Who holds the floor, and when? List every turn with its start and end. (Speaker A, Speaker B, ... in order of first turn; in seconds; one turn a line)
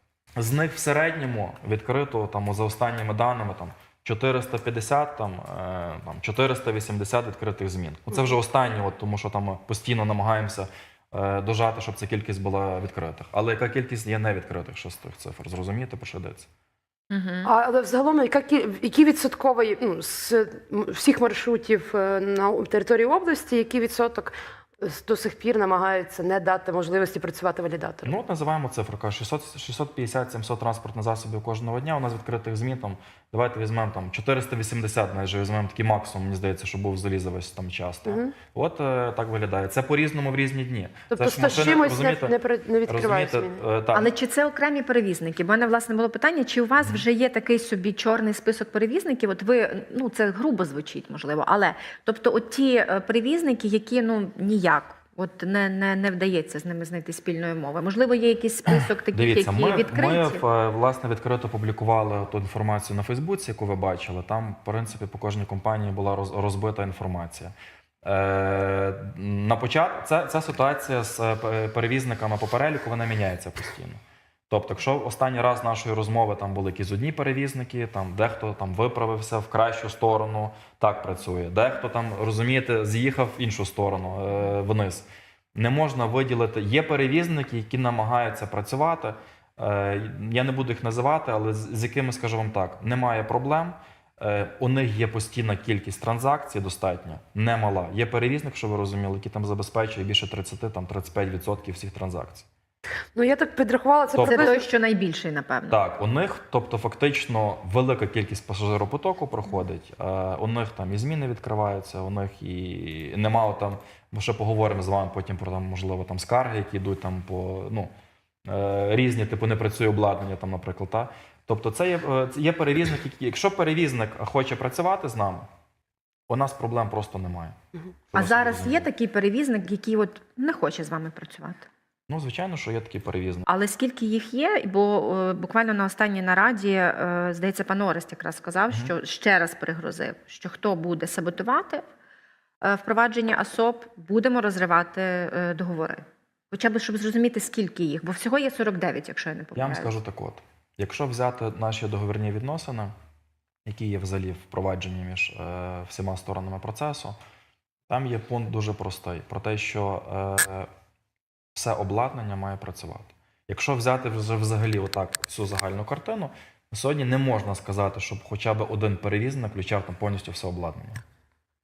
Speaker A: 0.4-16.5
Speaker B: 17.1-17.5
Speaker C: 17.4-28.1
Speaker A: 28.0-42.4
Speaker C: 38.0-38.4
Speaker C: 41.1-43.6
Speaker A: 42.9-44.1
Speaker B: 43.9-60.4
Speaker A: 46.8-47.0
Speaker A: 58.8-102.5
Speaker C: 103.2-104.7
Speaker A: 104.1-104.5
Speaker B: 104.2-105.8
Speaker A: 105.7-117.9
Speaker A: 118.4-125.5
Speaker A: 126.3-127.6
Speaker A: 128.1-128.9
Speaker B: 128.1-131.7
Speaker A: 132.1-133.5
Speaker B: 133.5-141.8
Speaker B: 142.6-149.9
Speaker A: 149.5-152.9
Speaker A: 153.6-157.2
Speaker A: 157.9-160.7
Speaker A: 161.5-171.0